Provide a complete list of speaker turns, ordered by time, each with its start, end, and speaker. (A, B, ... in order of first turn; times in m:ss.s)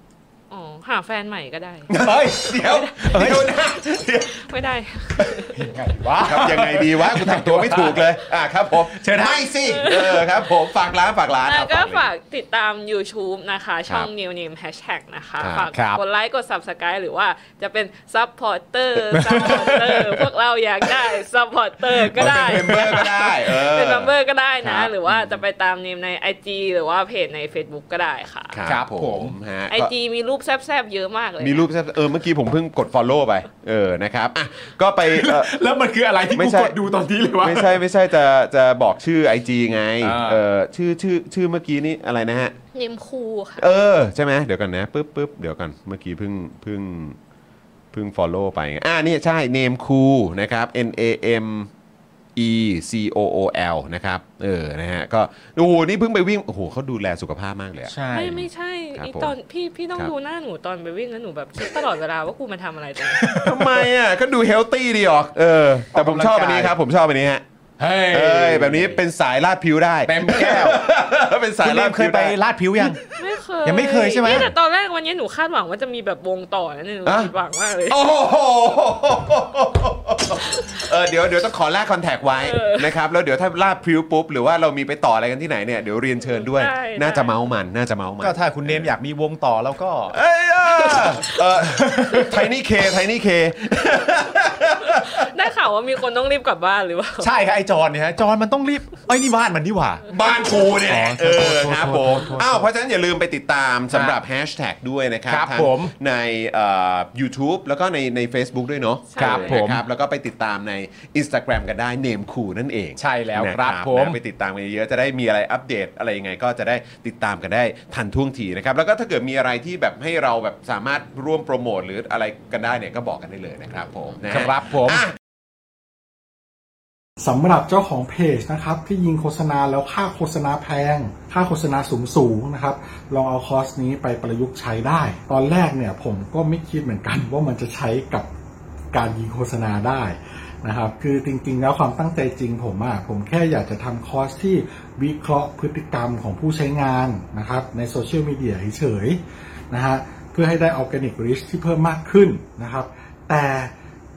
0:00.5-0:05.7 A
0:01.9-0:03.5 B
0:01.9-0:04.4 C
0:05.5-0:09.6 B
0:06.2-0:12.1 C
0:09.5-0:10.5 A
0:11.4-0:28.6 A
0:15.4-0:15.7 C
0:15.7-0:16.0 B
0:19.1-0:20.2 B
0:19.1-0:19.6 C
0:22.0-0:22.9 B
0:22.2-0:25.3 C
0:28.5-0:29.9 C
0:28.6-0:29.4 B
0:29.7-0:31.7 A
0:31.4-0:35.5 C
0:35.1-0:37.8 B
0:36.3-0:36.8 C
0:37.4-0:42.6 C
0:40.0-0:40.5 B
0:42.7-0:43.6 A
0:43.6-0:47.2 C
0:47.9-0:51.7 C
0:52.4-0:58.0 C
0:57.9-0:58.5 B
0:58.1-1:03.2 A
0:59.0-0:59.3 C
1:03.1-1:03.9 B
1:03.4-1:07.4 C
1:05.9-1:06.8 B
1:07.8-1:09.0 B
1:08.0-1:13.0 C
1:10.0-1:10.8 B
1:11.6-1:13.0 B
1:13.2-1:18.0 A
1:13.6-1:14.5 B
1:17.0-1:17.3 C
1:17.9-1:28.9 C
1:22.4-1:22.9 A
1:26.2-1:27.3 A
1:28.2-1:30.2 B
1:30.1-1:35.1 C
1:30.7-1:31.4 A
1:31.8-1:32.4 B
1:34.9-1:37.3 A
1:37.2-1:42.7 B
1:40.1-2:05.2 C
1:43.9-1:44.2 B
1:45.3-1:45.9 B
1:49.1-1:49.6 A
1:49.2-1:49.8 B
1:53.0-1:54.2 B
2:04.3-2:05.1 B
2:07.2-2:18.3 D
2:18.9-2:29.2 D
2:29.7-2:33.7 D